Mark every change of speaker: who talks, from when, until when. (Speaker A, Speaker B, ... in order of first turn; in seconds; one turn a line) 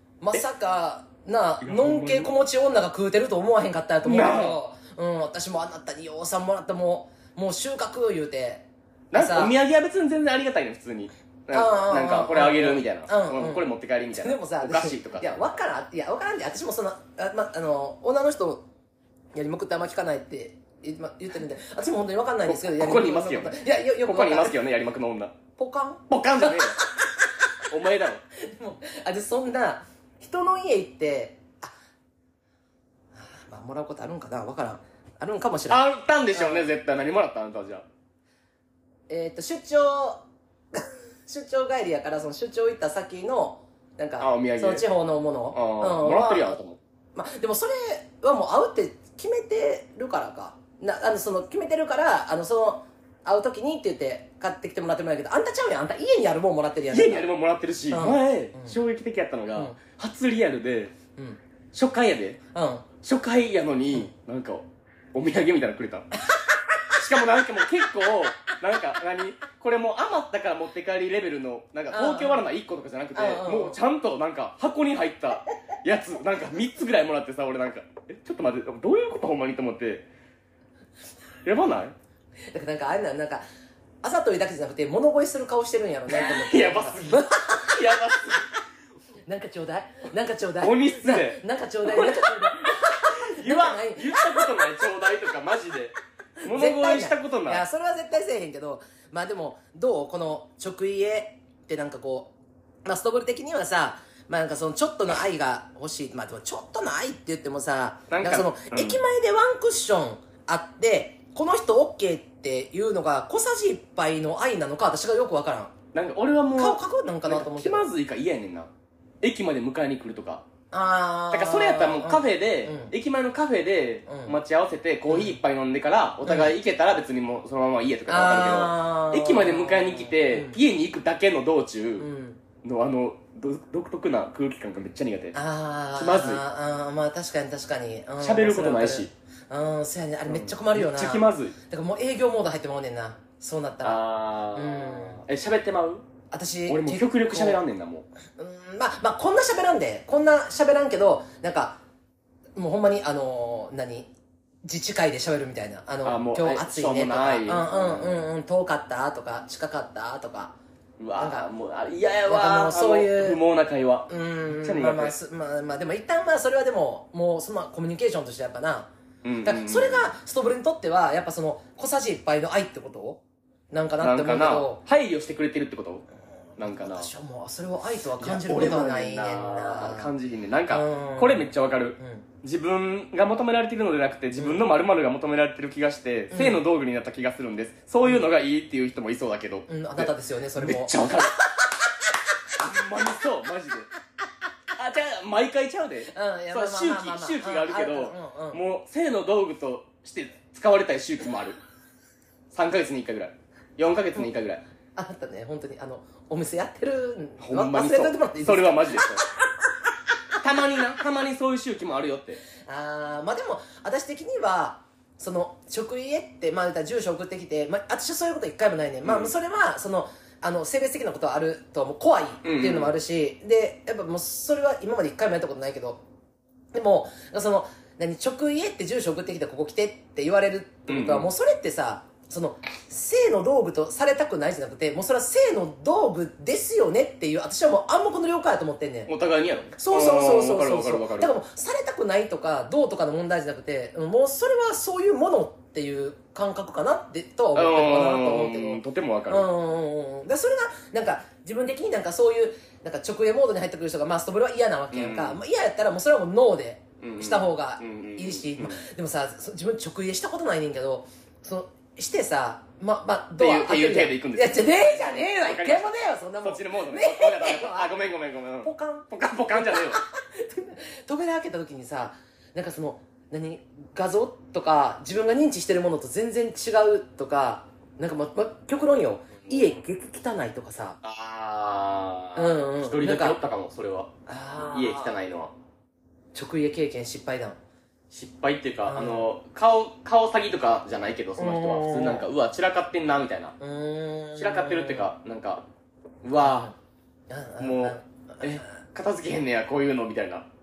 Speaker A: 0.2-9.5
Speaker B: 1.6-2.4
Speaker B: 4.0-4.6
Speaker B: 9.1-15.5
Speaker A: 11.5-18.7
Speaker A: 19.3-24.6
Speaker B: 22.4-25.4
Speaker A: 25.6-27.3
Speaker B: 26.1-26.8
Speaker B: 27.7-28.2
Speaker A: 28.4-31.7
Speaker A: 33.1-36.7
Speaker B: 35.7-37.9
Speaker A: 39.1-46.6
Speaker B: 44.2-44.9
Speaker B: 45.5-46.8
Speaker A: 47.1-57.3
Speaker B: 56.9-61.0
Speaker A: 57.9-58.8
Speaker B: 61.7-62.4
Speaker A: 62.5-62.9
Speaker B: 63.0-66.1
Speaker B: 66.9-80.1
Speaker A: 71.9-72.5
Speaker A: 73.2-73.8
Speaker B: 81.4-82.0
Speaker A: 82.5-83.4
Speaker A: 84.0-87.9
Speaker B: 86.1-88.5
Speaker A: 89.3-94.5
Speaker B: 90.6-97.6
Speaker A: 96.4-102.3
Speaker A: 102.8-115.8
Speaker B: 108.1-109.0
Speaker B: 115.9-118.7
Speaker A: 116.6-117.9
Speaker B: 119.2-120.5
Speaker A: 120.7-122.9
Speaker B: 121.3-132.1
Speaker A: 124.1-124.4
Speaker A: 125.1-125.4
Speaker A: 126.3-126.5
Speaker A: 128.1-130.6
Speaker A: 132.0-132.4
Speaker B: 132.6-135.4
Speaker A: 135.3-145.2
Speaker B: 136.0-136.4
Speaker B: 138.2-139.1
Speaker B: 140.3-141.6
Speaker B: 143.8-146.1
Speaker A: 146.3-147.6
Speaker B: 146.7-148.1
Speaker A: 148.4-151.8
Speaker A: 152.6-154.1
Speaker A: 154.6-160.6
Speaker B: 156.0-158.2
Speaker B: 161.0-165.2
Speaker A: 161.2-161.5
Speaker A: 162.3-163.4
Speaker A: 164.1-168.9
Speaker B: 169.2-170.1
Speaker A: 169.4-174.8
Speaker B: 174.0-176.1
Speaker B: 176.6-177.1
Speaker A: 176.6-180.1
Speaker B: 178.2-191.4
Speaker A: 180.7-182.2
Speaker A: 184.4-184.6
Speaker A: 186.3-186.6
Speaker A: 189.7-191.1
Speaker B: 192.6-193.9
Speaker B: 194.7-201.6
Speaker A: 196.1-198.6
Speaker B: 202.5-204.6
Speaker A: 205.0-209.5
Speaker B: 207.4-209.2
Speaker B: 210.4-212.4
Speaker A: 212.7-226.0
Speaker B: 219.0-219.3
Speaker B: 222.4-223.0
Speaker A: 226.7-239.1
Speaker B: 230.9-231.3
Speaker B: 239.1-241.3
Speaker A: 239.8-267.9
Speaker B: 247.6-249.5
Speaker B: 254.9-255.4
Speaker B: 257.0-258.9
Speaker B: 263.4-270.0
Speaker A: 268.6-281.0
Speaker B: 279.4-279.8
Speaker B: 281.0-285.5
Speaker A: 282.4-283.4
Speaker A: 284.3-285.2
Speaker A: 286.3-287.6
Speaker B: 288.1-293.6
Speaker A: 288.9-289.3
Speaker A: 291.4-292.3
Speaker A: 293.6-295.1
Speaker B: 294.4-295.6
Speaker B: 296.2-296.7
Speaker A: 296.4-296.8
Speaker A: 297.3-298.6
Speaker B: 297.6-300.5